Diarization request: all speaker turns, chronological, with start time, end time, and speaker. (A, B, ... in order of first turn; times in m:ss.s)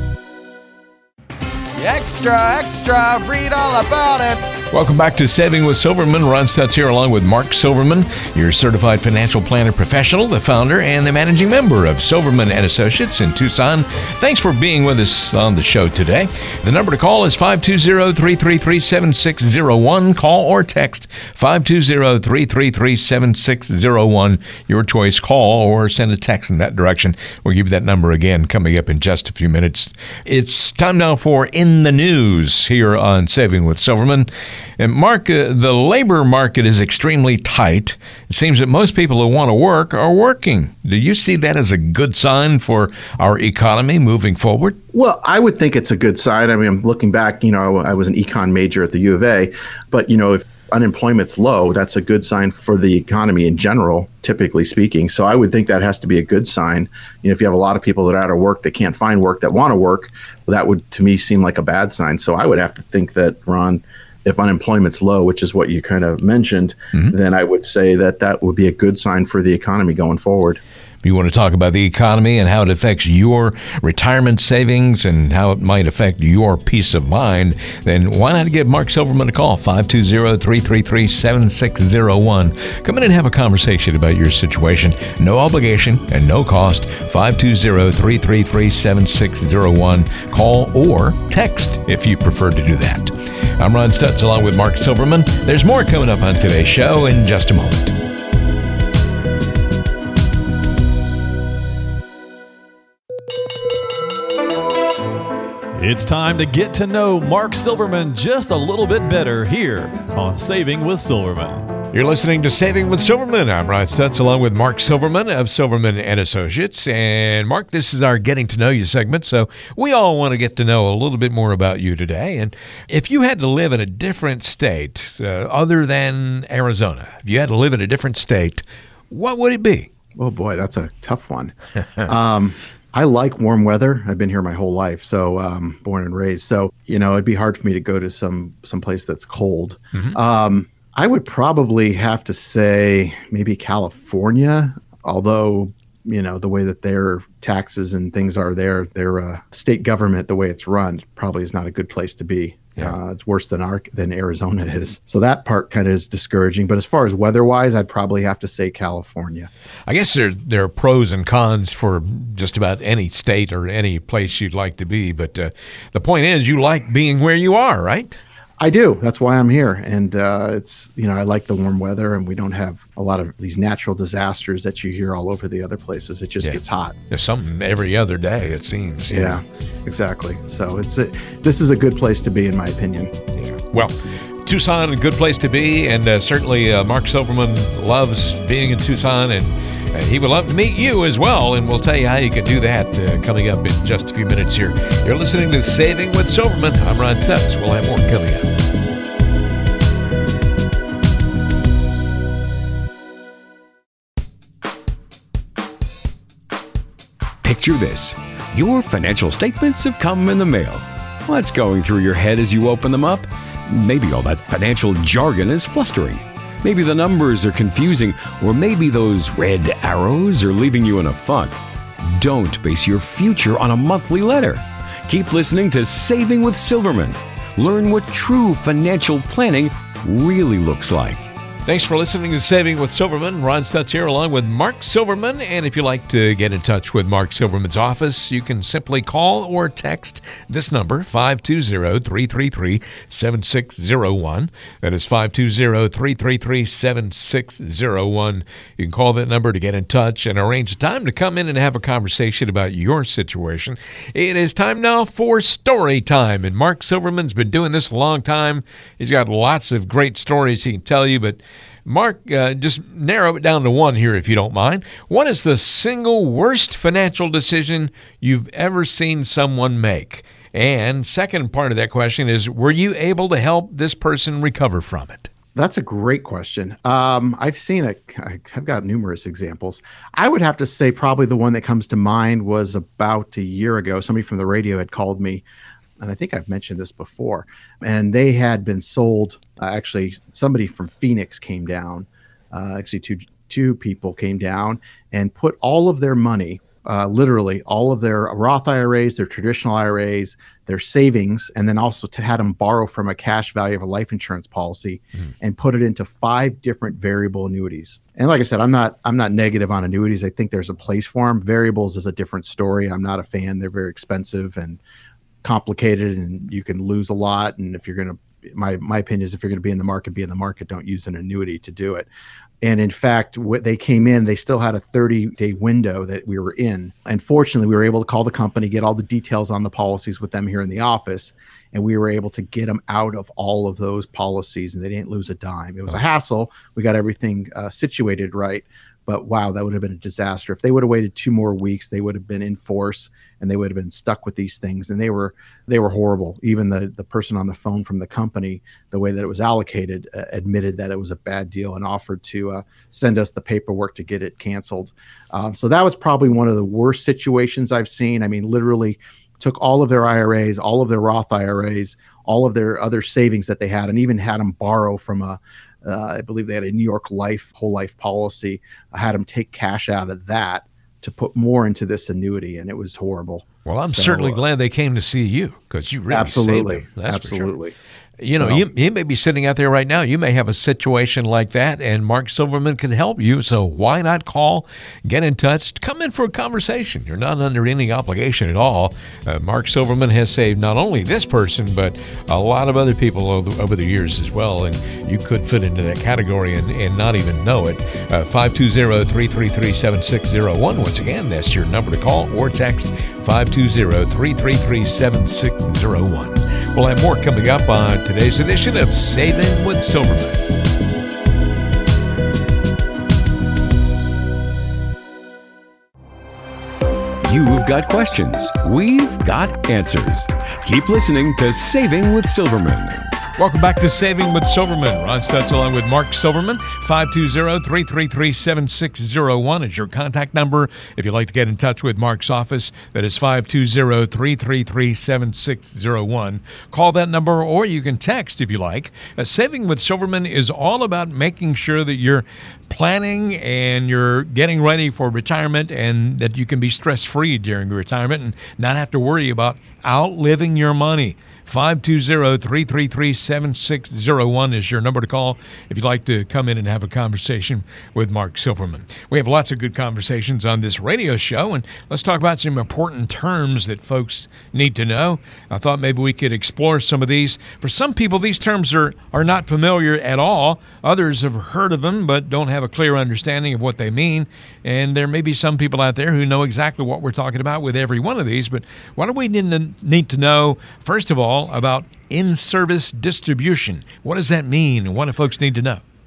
0:01.8-0:04.5 A
0:04.7-0:44.8 B
0:44.9-1:10.6 C
1:11.0-1:38.0 B
1:45.8-1:51.7 D
1:51.9-2:09.9 B
2:10.2-2:39.5 C
2:39.9-2:48.2 B
2:48.6-2:57.0 C
2:57.1-2:59.4 B
2:59.1-3:03.2 C
3:03.4-3:18.5 B
3:27.4-3:51.3 E
3:51.7-4:35.3 B
4:35.6-4:45.4 C
4:46.0-5:14.8 C
5:15.4-5:22.1 C
5:22.6-6:14.4 C
6:13.7-6:17.5 B
6:16.1-6:17.8 C
6:18.2-6:50.4 B
6:18.4-6:18.6 C
6:57.2-7:03.0 E
7:03.4-8:05.8 B